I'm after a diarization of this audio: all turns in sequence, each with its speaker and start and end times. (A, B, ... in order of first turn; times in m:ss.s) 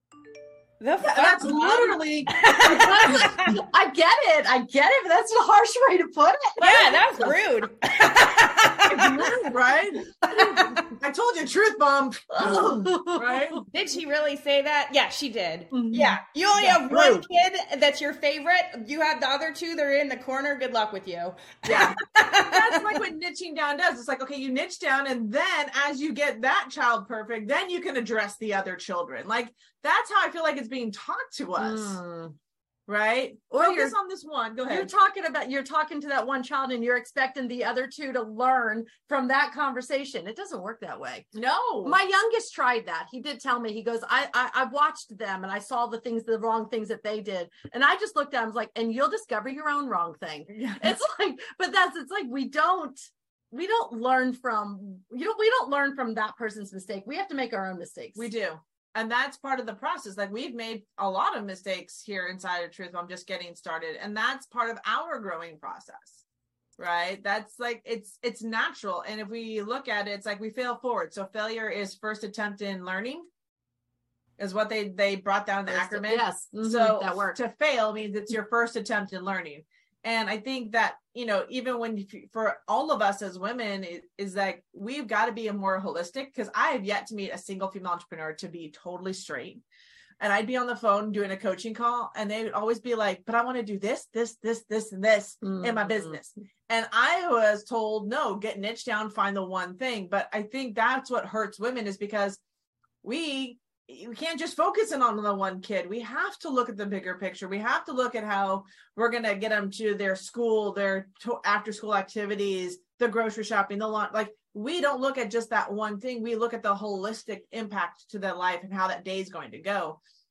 0:00.8-0:03.6 A
0:01.0-0:03.5 B
0:02.6-0:07.3 C
0:06.6-0:09.2 A
0:08.9-0:10.1 B
0:09.0-0:09.5 C
0:10.3-0:10.9 A
0:10.9-0:13.6 B
0:12.4-0:13.6 C
0:13.7-0:23.0 A
0:15.7-0:16.2 C
0:16.6-0:17.2 B
0:21.7-0:32.0 B
0:31.6-0:32.3 C
0:32.9-0:34.9 B
0:33.5-0:33.9 C
0:34.7-0:41.3 C
0:41.3-0:42.0 B
0:41.8-0:58.3 C
0:50.5-0:51.0 B
0:58.2-1:06.2 B
1:06.8-1:13.2 B
1:14.4-1:29.6 B
1:15.7-1:17.4 C
1:30.2-1:42.4 B
1:35.4-1:36.2 C
1:43.0-2:00.0 B